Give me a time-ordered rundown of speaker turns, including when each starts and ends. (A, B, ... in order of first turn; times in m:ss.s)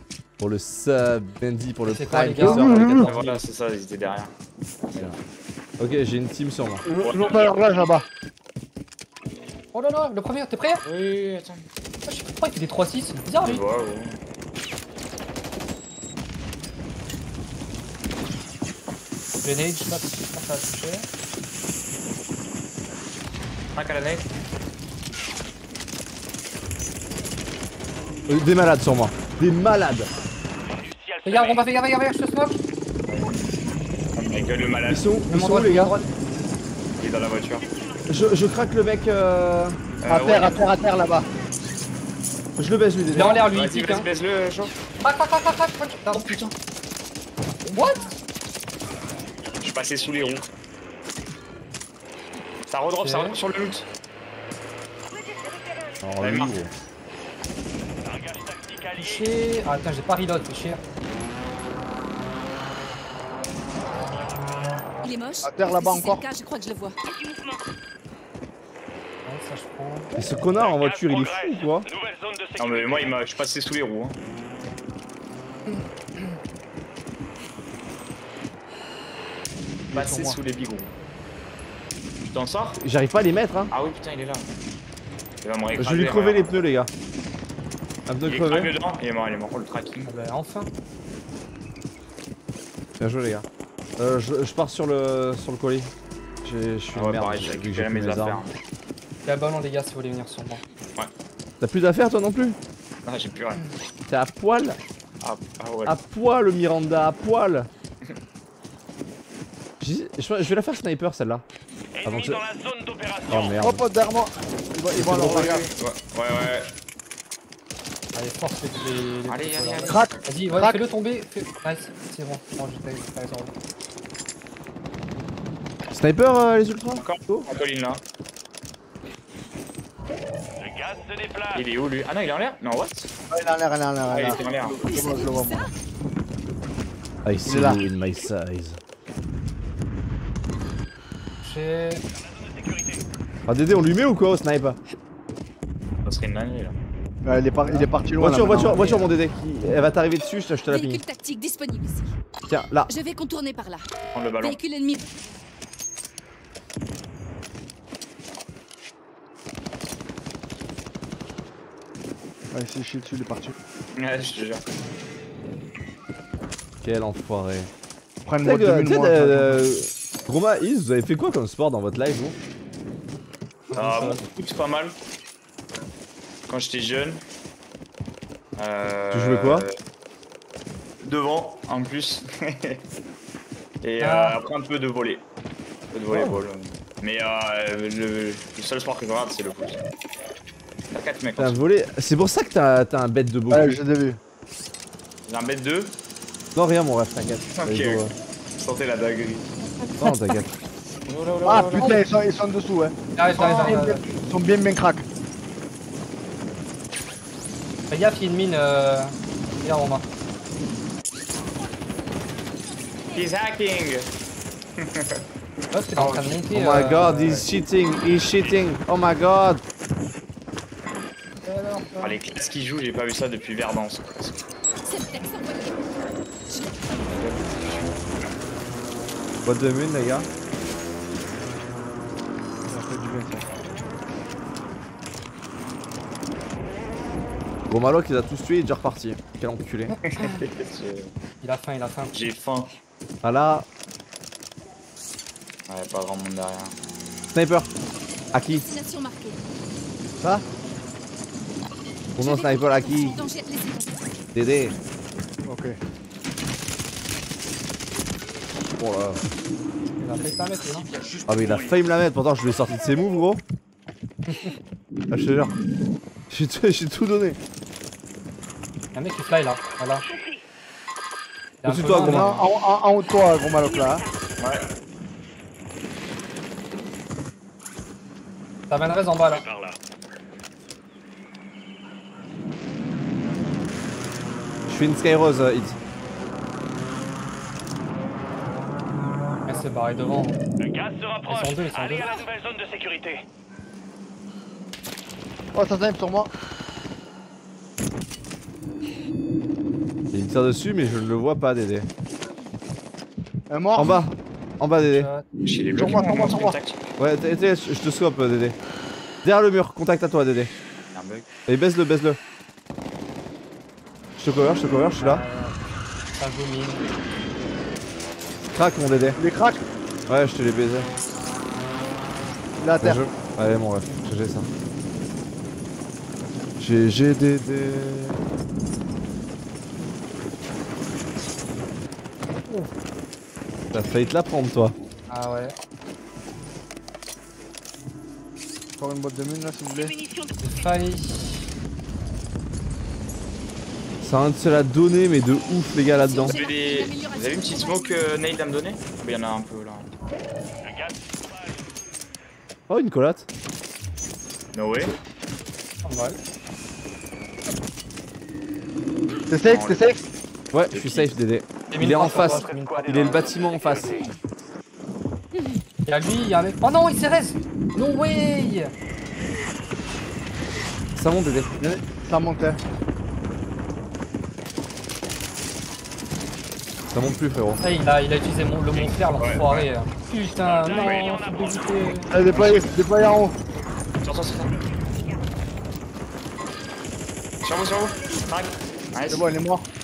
0:00.4-0:03.1 A
0:01.9-0:03.4 B
0:02.4-0:03.1 C
0:03.0-0:04.3 D
0:05.8-0:06.8 A
0:06.8-0:08.0 C
0:07.0-0:07.6 D
0:09.7-0:10.8 B
0:10.8-0:11.6 D
0:12.0-0:13.6 B
0:13.4-0:14.2 D
0:19.4-0:21.0 B
0:23.7-0:24.2 D
0:28.3-0:30.1 A
0:30.7-0:31.7 E
0:31.2-0:32.6 B
0:33.1-0:33.4 D
0:34.1-0:35.0 D
0:34.9-0:35.9 A
0:35.3-0:36.1 B
0:37.0-0:37.6 D
0:38.1-0:39.8 A
0:40.0-0:40.6 D
0:40.1-0:41.3 C
0:42.6-0:43.4 A
0:43.1-0:44.1 B
0:43.5-0:44.7 D
0:45.0-0:46.3 B
0:46.1-0:46.5 D
0:47.7-0:48.1 B
0:49.6-0:50.5 D
0:52.7-0:53.9 D
0:53.0-0:53.4 B
0:56.0-0:56.7 A
0:56.2-0:56.5 D
0:58.0-0:59.3 E
0:59.0-1:00.8 B
1:05.0-1:07.0 F
1:05.4-1:06.2 C
1:09.2-1:10.1 B
1:10.2-1:11.8 A
1:10.5-1:13.2 E
1:12.6-1:14.2 D
1:19.9-1:20.4 C
1:19.9-1:20.9 D
1:22.2-1:22.8 D
1:22.8-1:23.7 A
1:23.7-1:24.5 D
1:25.4-1:26.5 D
1:25.8-1:26.9 A
1:28.1-1:28.7 A
1:28.2-1:30.1 D
1:30.0-1:30.7 B
1:33.0-1:33.4 A
1:34.0-1:35.9 A
1:36.4-1:38.4 A
1:36.9-1:38.5 D
1:39.2-1:40.6 B
1:41.6-1:42.6 A
1:43.0-1:43.6 D
1:44.1-1:44.8 A
1:45.2-1:46.0 D
1:45.8-1:47.7 A
1:49.8-1:51.4 A
1:51.9-1:53.6 E
1:52.0-1:52.4 A
1:53.3-1:53.8 A
1:53.6-1:55.7 C
1:55.0-1:55.5 A
1:55.0-1:56.7 D
1:58.1-2:03.5 B
1:59.3-2:00.1 D
1:59.9-2:00.8 C
2:05.9-2:07.5 A
2:07.0-2:08.0 D
2:10.6-2:11.6 E
2:11.5-2:13.1 D
2:13.3-2:15.7 C
2:14.1-2:14.8 D
2:14.2-2:15.7 F
2:17.2-2:18.8 A
2:17.4-2:17.8 C
2:21.4-2:22.0 B
2:22.2-2:23.0 E
2:23.5-2:24.8 A
2:26.0-2:26.7 D
2:27.2-2:28.8 C
2:27.7-2:31.0 A
2:28.5-2:29.1 B
2:30.7-2:32.1 F
2:32.5-2:32.9 A
2:32.9-2:33.9 F
2:34.1-2:34.6 D
2:34.4-2:35.1 F
2:42.5-2:43.5 C
2:44.0-2:44.6 D
2:46.8-2:47.7 A
2:48.2-2:49.6 C
2:48.4-2:52.4 A
2:53.7-2:54.2 B
2:53.7-2:54.9 D
2:56.5-2:57.2 D
2:58.6-2:59.7 D
2:59.1-2:59.7 A
3:01.0-3:02.8 D
3:03.8-3:05.2 D
3:04.0-3:04.4 B
3:05.9-3:09.8 D
3:06.1-3:06.4 A
3:10.9-3:11.6 D
3:11.4-3:13.8 A
3:13.5-3:14.2 C
3:15.2-3:15.9 D
3:16.5-3:18.1 A
3:17.6-3:18.1 D
3:18.6-3:19.5 D
3:20.0-3:20.6 A
3:21.1-3:22.0 D
3:21.4-3:25.0 C
3:23.2-3:24.0 B
3:27.9-3:30.0 B
3:33.1-3:34.1 D
3:34.8-3:35.2 D
3:35.7-3:37.4 B
3:36.0-3:39.6 A
3:41.4-3:42.2 B
3:42.0-3:44.4 D
3:44.8-3:45.9 F
3:46.5-3:47.0 F
3:46.9-3:47.9 D
3:49.4-3:50.3 A
3:52.7-3:53.4 C
3:57.7-3:59.9 A
3:59.9-4:00.4 B
4:00.1-4:01.1 D
4:01.4-4:02.1 B
4:02.1-4:02.7 D
4:03.2-4:03.6 A
4:05.7-4:06.7 D
4:07.3-4:07.7 A
4:08.3-4:08.6 A
4:08.5-4:09.4 F
4:12.2-4:13.2 A
4:12.2-4:14.1 F
4:14.3-4:14.8 A
4:15.4-4:15.8 C
4:18.8-4:19.2 A
4:20.0-4:20.9 B
4:21.2-4:23.4 A
4:25.1-4:25.5 A
4:26.3-4:27.4 A
4:28.9-4:30.0 B
4:30.0-4:30.3 E
4:31.6-4:32.5 B
4:31.6-4:32.4 A
4:31.9-4:34.0 C
4:34.4-4:34.7 D
4:38.7-4:39.4 B
4:39.3-4:39.8 E
4:44.7-4:45.8 A
4:49.5-4:50.4 B
4:50.6-4:53.2 E
4:51.3-4:52.2 B
4:55.5-4:56.3 C
5:00.1-5:01.9 A
5:03.5-5:04.0 C
5:03.7-5:05.1 A
5:04.7-5:05.2 B
5:05.4-5:06.8 D
5:05.7-5:06.6 C
5:07.0-5:08.5 A
5:09.2-5:10.5 A
5:10.9-5:11.3 D
5:11.5-5:12.2 A
5:14.2-5:15.2 A
5:15.0-5:15.6 B
5:16.2-5:16.9 B
5:18.5-5:19.2 A
5:19.2-5:19.6 C
5:20.1-5:20.9 A
5:22.6-5:23.0 C
5:22.8-5:24.5 A
5:26.6-5:28.2 A
5:32.3-5:32.7 B
5:33.7-5:34.8 A
5:35.1-5:35.6 B
5:38.8-5:39.9 C
5:40.4-5:41.5 B
5:44.0-5:46.4 A
5:45.9-5:48.1 F
5:46.2-5:49.9 D
5:50.6-5:51.6 E
5:52.7-5:53.3 A
5:54.5-5:55.0 D
5:55.8-5:56.2 B
5:59.3-6:00.0 C
5:59.4-6:00.0 D
6:00.5-6:03.9 A
6:00.7-6:01.1 D
6:01.7-6:02.9 B
6:02.0-6:04.1 E
6:05.8-6:08.7 B
6:11.0-6:11.8 A
6:12.0-6:12.6 C
6:16.9-6:17.6 A
6:17.6-6:22.1 B
6:18.7-6:19.7 D
6:20.4-6:22.1 E
6:20.5-6:21.2 D
6:22.1-6:23.3 C
6:22.3-6:22.7 D
6:24.0-6:24.6 D
6:27.4-6:29.3 D
6:29.1-6:29.6 C